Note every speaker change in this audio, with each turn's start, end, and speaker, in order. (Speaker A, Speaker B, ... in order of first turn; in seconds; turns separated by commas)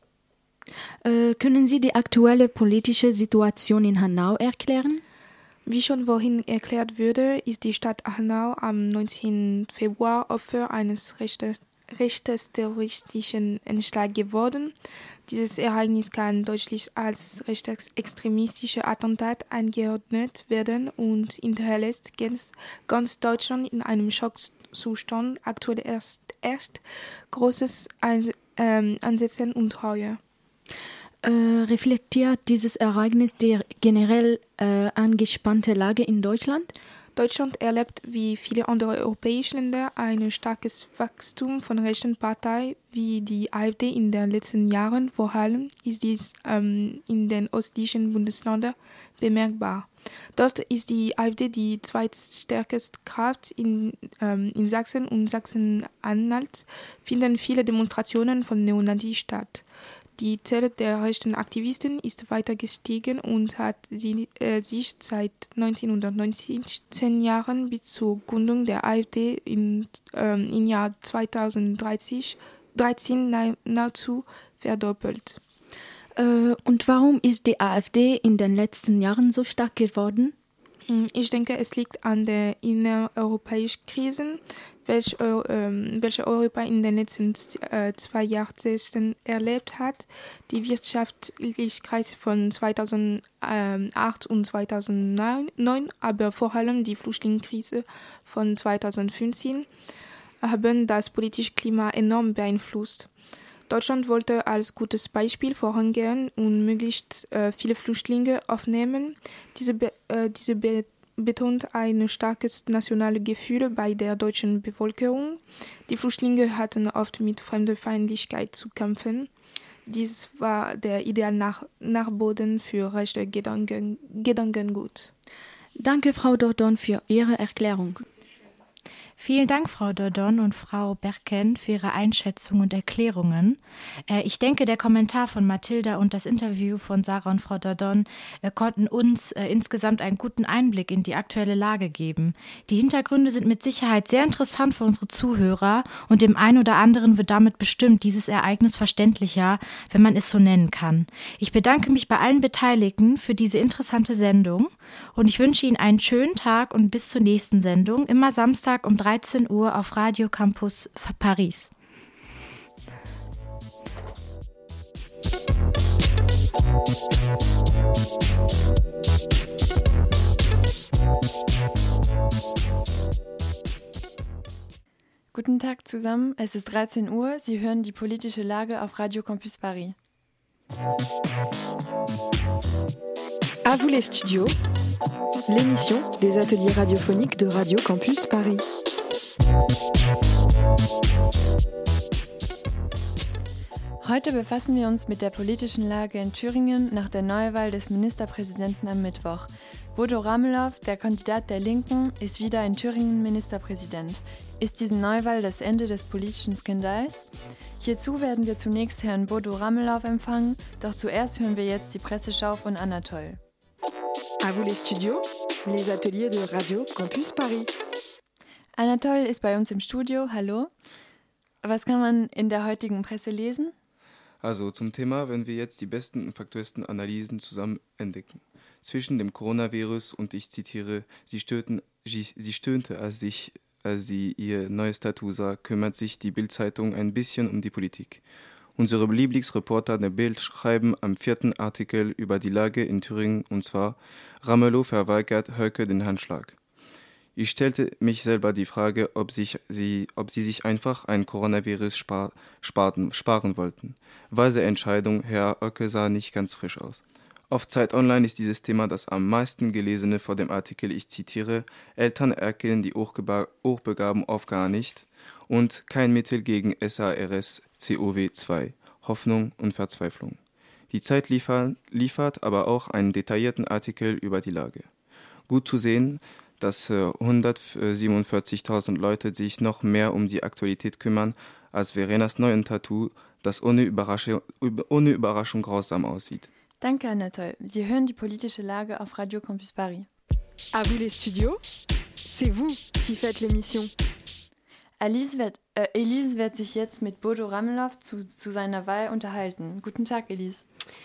Speaker A: 1.0-5.0, Speaker B: 5.7-14.7, Speaker B: 15.3-30.2, Speaker A: 31.2-36.7, Speaker B: 37.2-59.6, Speaker B: 60.2-75.4, Speaker A: 76.2-80.3, Speaker B: 80.9-99.7, Speaker B: 100.4-103.1, Speaker B: 103.7-119.3, Speaker B: 119.9-125.1, Speaker A: 125.8-128.0, Speaker C: 129.2-161.7, Speaker D: 175.3-180.0, Speaker E: 183.7-184.6, Speaker E: 185.5-188.6, Speaker D: 194.0-213.4, Speaker E: 214.4-217.7, Speaker D: 218.8-220.7, Speaker D: 221.6-223.7, Speaker F: 224.4-238.2, Speaker F: 238.8-246.6, Speaker F: 247.4-270.4, Speaker F: 270.9-274.9, Speaker F: 275.5-286.5, Speaker D: 286.8-290.1, Speaker E: 290.7-291.6, Speaker E: 292.2-293.9, Speaker D: 295.0-300.6